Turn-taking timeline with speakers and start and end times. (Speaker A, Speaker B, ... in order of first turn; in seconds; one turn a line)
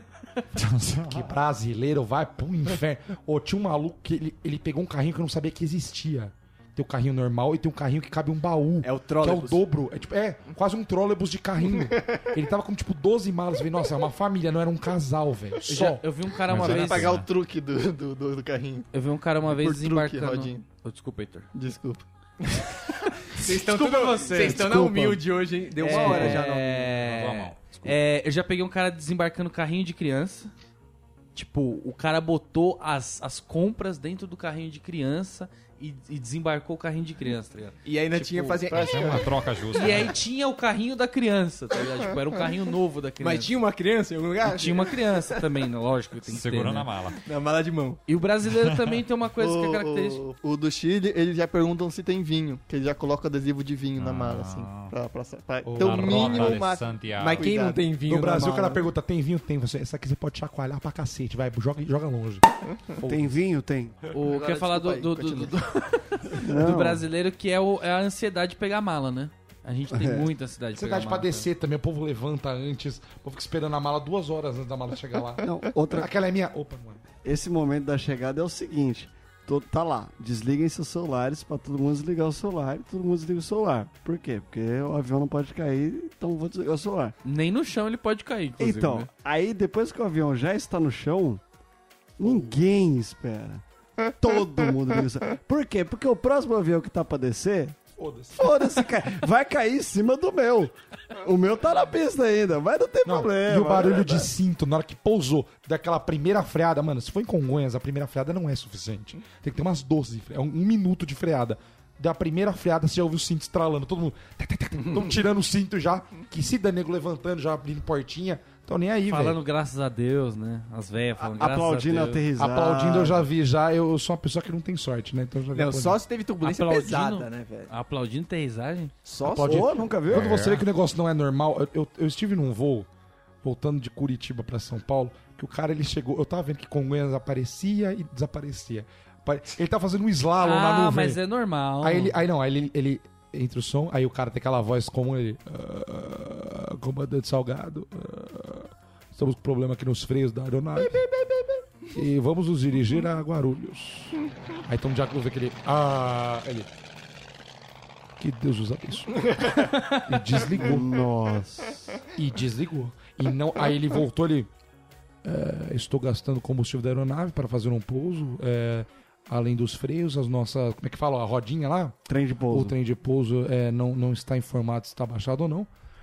Speaker A: 0.5-1.3
Speaker B: 1.0-16.1
Speaker C: 8.8-9.6
Speaker D: 15.7-17.1
Speaker A: 16.5-17.3
Speaker E: 16.5-18.9
Speaker D: 18.9-21.5
Speaker E: 19.4-20.6
Speaker E: 21.5-22.0
Speaker C: 23.3-26.9
Speaker D: 23.4-25.1
Speaker D: 25.8-30.5
Speaker A: 27.0-28.0
Speaker D: 31.3-39.0
Speaker C: 37.8-39.3
Speaker A: 38.7-40.1
Speaker E: 38.7-39.4
Speaker D: 39.7-43.5
Speaker C: 43.2-45.4
Speaker D: 44.5-46.9
Speaker A: 46.2-47.2
Speaker C: 47.2-48.0
Speaker D: 48.1-50.2
Speaker E: 49.4-57.9
Speaker A: 54.0-54.9
Speaker B: 55.6-56.6
Speaker A: 55.8-57.5
Speaker C: 57.2-58.9
Speaker B: 58.1-63.4
Speaker F: 63.0-64.0
Speaker D: 64.1-71.5
Speaker E: 64.2-65.5
Speaker F: 66.3-67.0
Speaker F: 69.9-70.3
Speaker B: 70.7-77.0
Speaker F: 75.4-76.1
Speaker F: 77.2-87.1
Speaker D: 87.2-89.1
Speaker F: 88.6-91.4
Speaker F: 92.2-93.6
Speaker F: 94.2-97.8
Speaker B: 98.0-98.5
Speaker F: 98.3-104.3
Speaker B: 103.0-119.4
Speaker D: 119.1-122.2
Speaker F: 121.2-123.2
Speaker B: 122.3-126.0
Speaker C: 125.5-127.7
Speaker D: 126.4-128.9
Speaker C: 129.1-129.8
Speaker B: 129.2-132.9
Speaker F: 129.4-130.4
Speaker A: 130.1-130.6
Speaker B: 133.4-141.2
Speaker D: 140.4-142.1
Speaker B: 141.8-151.1
Speaker B: 151.9-156.7
Speaker B: 158.2-159.4
Speaker D: 159.6-160.0
Speaker B: 160.0-160.9
Speaker F: 160.5-162.0
Speaker B: 162.2-164.5
Speaker B: 165.2-171.9
Speaker F: 172.1-172.8
Speaker B: 172.5-175.7